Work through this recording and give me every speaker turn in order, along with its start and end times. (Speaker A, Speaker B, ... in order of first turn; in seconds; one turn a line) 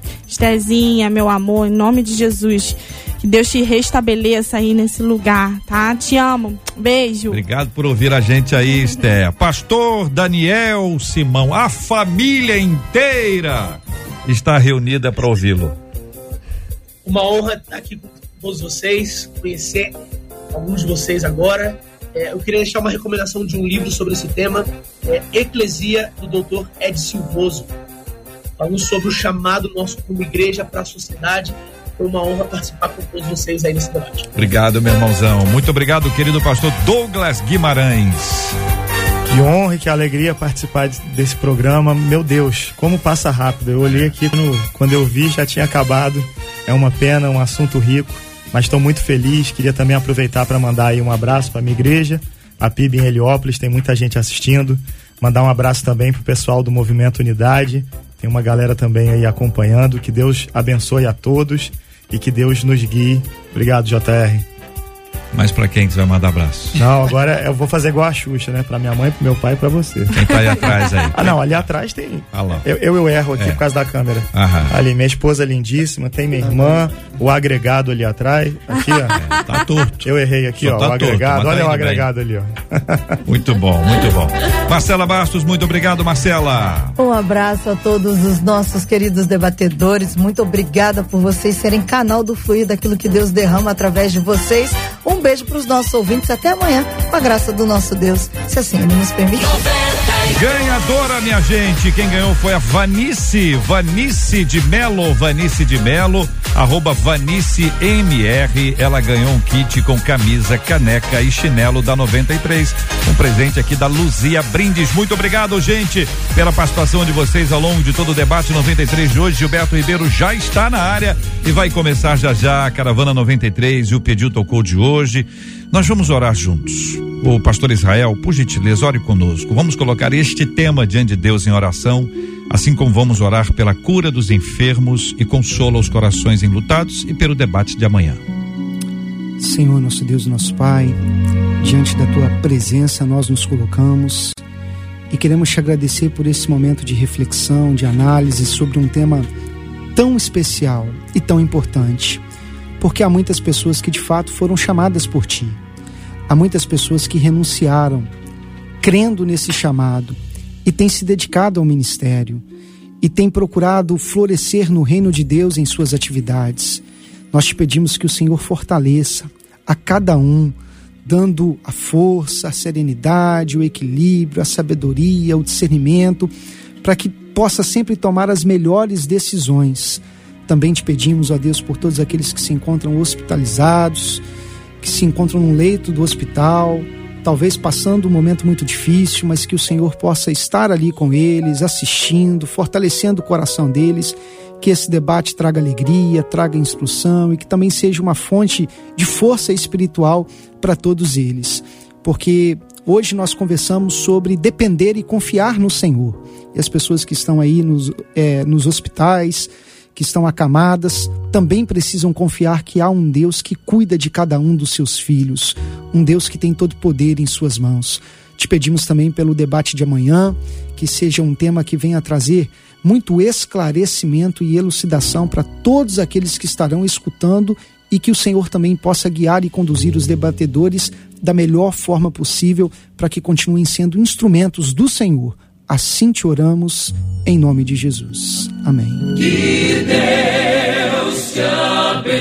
Speaker A: 0.3-7.4
Speaker B: 7.3-15.8
Speaker C: 17.0-19.9
Speaker C: 20.5-27.7
Speaker C: 28.6-34.3
Speaker B: 34.3-38.6
Speaker D: 39.2-64.4
Speaker B: 65.3-66.8
Speaker D: 66.7-70.2
Speaker B: 70.1-71.7
Speaker D: 71.1-79.2
Speaker B: 72.3-72.7
Speaker B: 73.4-73.6
Speaker B: 74.3-74.8
Speaker B: 79.1-82.1
Speaker D: 80.0-83.2
Speaker B: 83.2-87.0
Speaker E: 87.0-99.8
Speaker B: 100.2-138.2
Speaker F: 139.4-141.0
Speaker F: 141.6-144.4
Speaker F: 145.1-149.3
Speaker F: 149.9-152.2
Speaker F: 152.8-155.6
Speaker F: 156.3-158.1
Speaker F: 158.8-162.4
Speaker F: 163.0-184.2
Speaker F: 184.8-239.4